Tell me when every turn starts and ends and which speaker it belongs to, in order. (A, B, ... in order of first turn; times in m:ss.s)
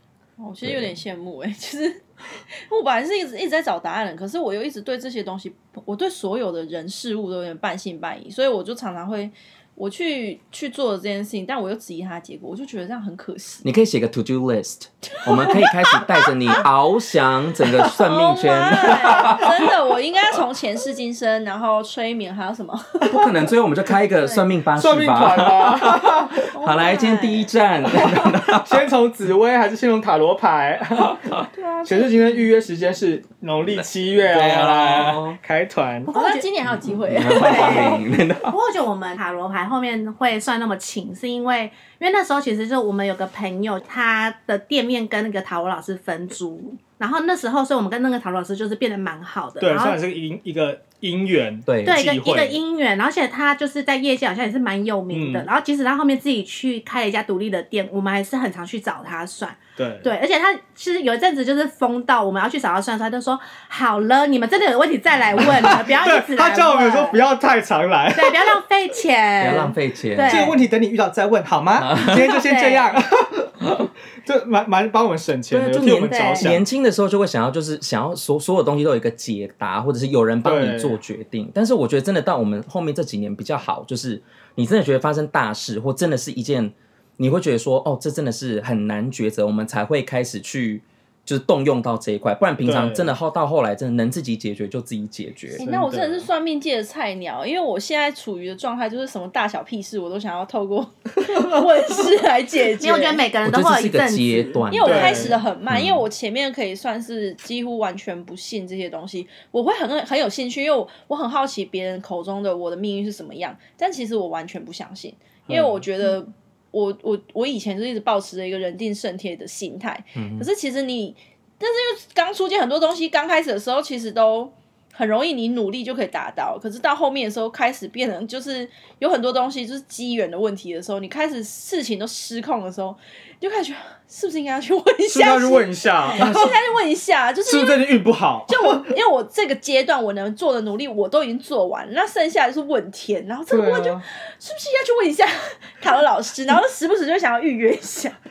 0:00.4-0:13.6 A
0:00.6-0:01.0 B
0:13.6-0:19.7 B
0:15.2-0:16.2 A
0:17.9-0:23.2 A
0:23.0-0:28.8 B
0:24.8-0:26.4 C
0:26.5-0:27.5 A
0:28.0-0:36.1 C
0:31.5-0:32.5 A
0:33.8-0:35.4 B
0:36.1-0:36.5 D
0:36.1-0:38.0 A
0:36.8-0:38.5 B
0:37.3-0:50.0 D
0:49.6-0:52.6 C
0:51.7-0:52.0 B
0:51.8-1:07.2 D
0:55.1-0:55.5 C
0:59.8-1:00.1 C
1:05.4-1:08.6 C
1:08.1-1:10.6 D
1:09.4-1:10.5 B
1:10.2-1:16.6 C
1:11.8-1:12.2 B
1:12.1-1:13.0 D
1:15.5-1:35.6 B
1:16.1-1:16.5 D
1:20.4-1:21.0 C
1:32.6-1:33.2 C
1:35.6-1:43.2 A
1:35.6-1:36.3 C
1:42.8-1:44.6 D
1:43.4-1:46.0 B
1:44.7-2:17.8 A
1:44.8-1:45.4 C
1:55.5-1:55.8 C
2:00.2-2:00.5 B
2:15.1-2:16.6 C
2:17.4-2:18.9 C
2:18.5-2:28.2 A
2:23.5-2:24.0 C